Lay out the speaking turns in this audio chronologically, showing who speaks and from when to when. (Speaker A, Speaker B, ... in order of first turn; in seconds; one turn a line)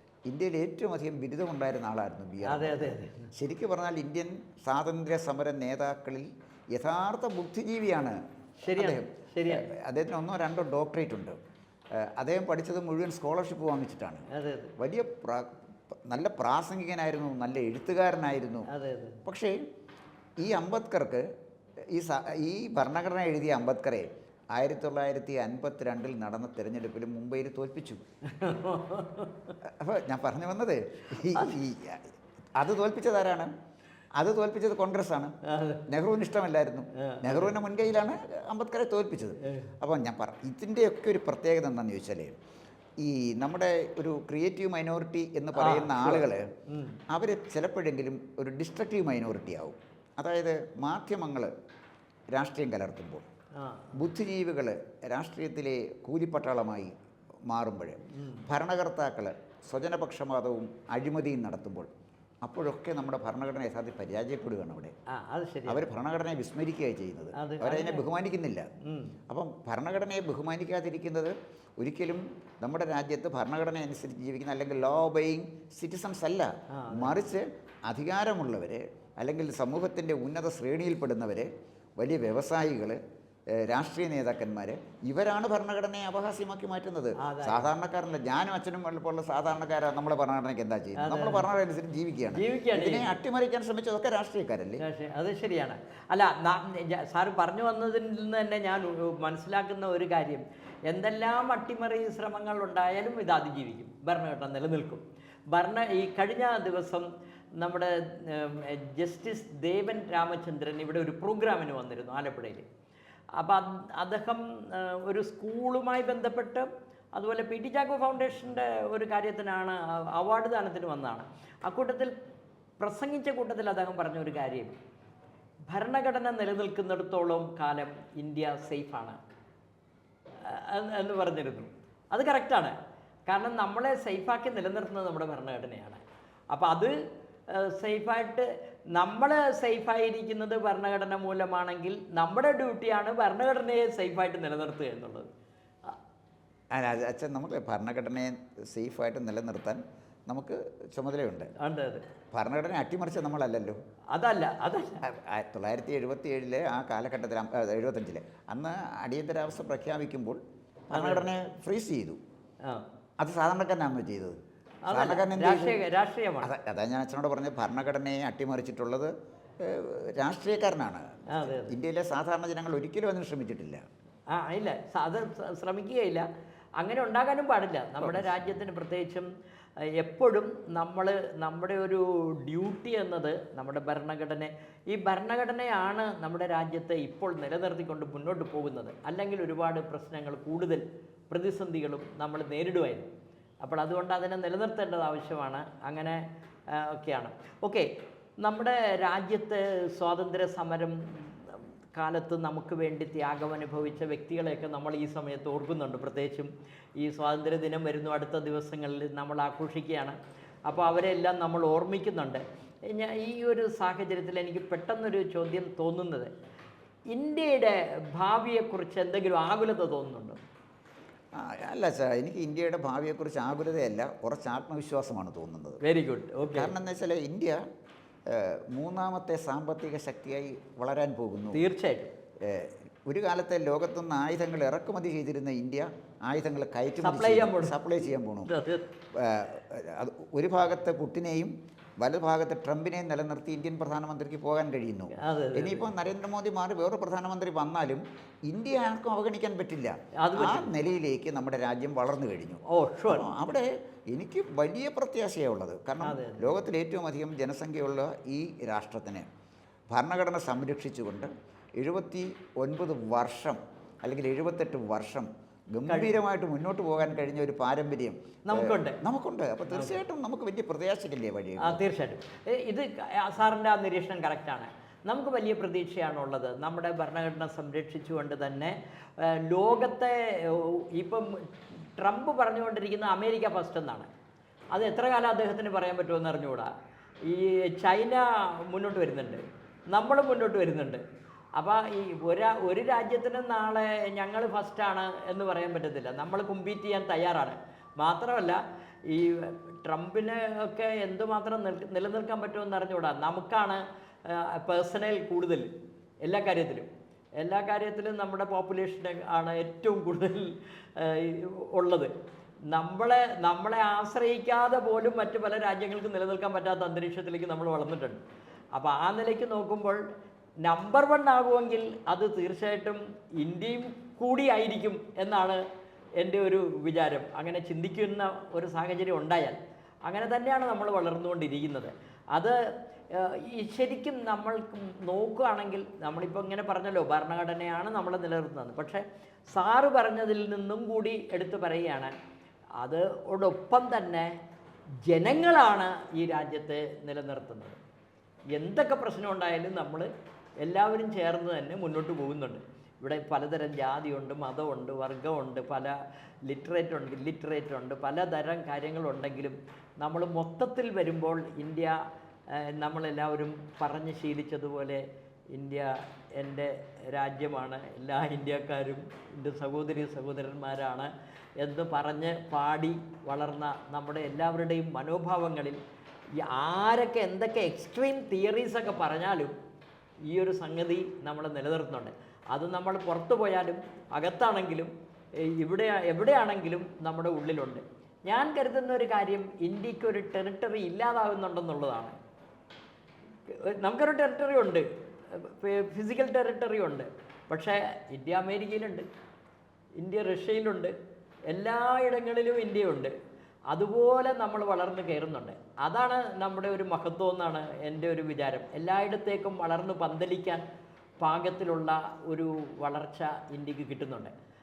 Speaker A: 0.3-8.2
Speaker B: 2.5-3.3
Speaker B: 8.6-9.7
Speaker A: 8.7-11.4
Speaker A: 11.9-14.3
Speaker B: 14.3-14.8
Speaker A: 14.8-18.7
Speaker B: 18.7-19.2
Speaker A: 19.2-19.6
Speaker A: 20.4-21.3
Speaker A: 21.8-28.0
Speaker B: 28.2-29.6
Speaker A: 29.6-33.5
Speaker B: 31.1-31.6
Speaker A: 34.2-35.4
Speaker B: 35.4-35.9
Speaker A: 35.9-42.4
Speaker B: 37.0-37.6
Speaker B: 39.4-39.7
Speaker A: 43.0-46.5
Speaker B: 45.6-47.0
Speaker A: 47.1-51.5
Speaker A: 52.3-53.3
Speaker B: 53.6-54.0
Speaker A: 53.9-56.9
Speaker A: 57.5-61.9
Speaker B: 58.1-58.5
Speaker A: 62.4-65.0
Speaker B: 65.1-65.8
Speaker A: 65.7-68.7
Speaker B: 67.4-68.1
Speaker B: 68.8-69.2
Speaker A: 69.3-94.8
Speaker B: 76.7-77.2
Speaker B: 87.2-87.7
Speaker B: 91.0-91.5
Speaker B: 92.3-93.2
Speaker B: 94.8-112.7
Speaker B: 113.4-122.2
Speaker B: 122.8-124.8
Speaker B: 125.7-129.2
Speaker B: 130.4-132.8
Speaker B: 133.3-136.9
Speaker B: 137.5-145.3
Speaker A: 146.7-151.5
Speaker B: 151.6-152.0
Speaker A: 152.3-153.8
Speaker B: 154.1-155.0
Speaker A: 155.0-162.2
Speaker B: 160.9-161.3
Speaker A: 163.2-164.4
Speaker B: 164.9-166.5
Speaker A: 164.9-165.8
Speaker A: 166.4-173.8
Speaker B: 171.3-171.8
Speaker B: 174.3-176.3
Speaker B: 176.8-179.3
Speaker A: 178.0-178.6
Speaker B: 179.8-193.1
Speaker B: 193.6-197.9
Speaker B: 198.4-216.3
Speaker B: 217.1-220.4
Speaker A: 221.3-225.8
Speaker B: 225.8-226.7
Speaker A: 226.5-227.6
Speaker A: 228.3-231.6
Speaker B: 231.5-232.1
Speaker A: 232.4-238.6
Speaker B: 237.0-237.8
Speaker B: 238.5-238.9
Speaker A: 239.1-259.3
Speaker B: 245.1-245.9
Speaker B: 250.2-250.7
Speaker B: 252.7-253.3
Speaker B: 256.0-256.6
Speaker A: 259.9-271.8
Speaker B: 265.9-266.2
Speaker B: 268.5-269.0
Speaker B: 269.7-270.0
Speaker B: 271.6-284.1
Speaker B: 284.7-286.7
Speaker B: 287.2-291.0
Speaker B: 291.6-305.7
Speaker B: 306.2-312.1
Speaker B: 312.7-318.2
Speaker B: 318.8-320.0
Speaker B: 320.6-325.6
Speaker B: 326.2-342.1
Speaker B: 342.8-344.4
Speaker B: 345.0-347.8
Speaker B: 348.5-350.1
Speaker B: 350.6-362.0
Speaker B: 362.5-375.8
Speaker B: 376.4-379.5
Speaker B: 380.3-392.2
Speaker B: 393.5-399.1
Speaker B: 400.0-400.9
Speaker B: 401.5-403.1
Speaker B: 403.7-410.6
Speaker B: 411.2-414.3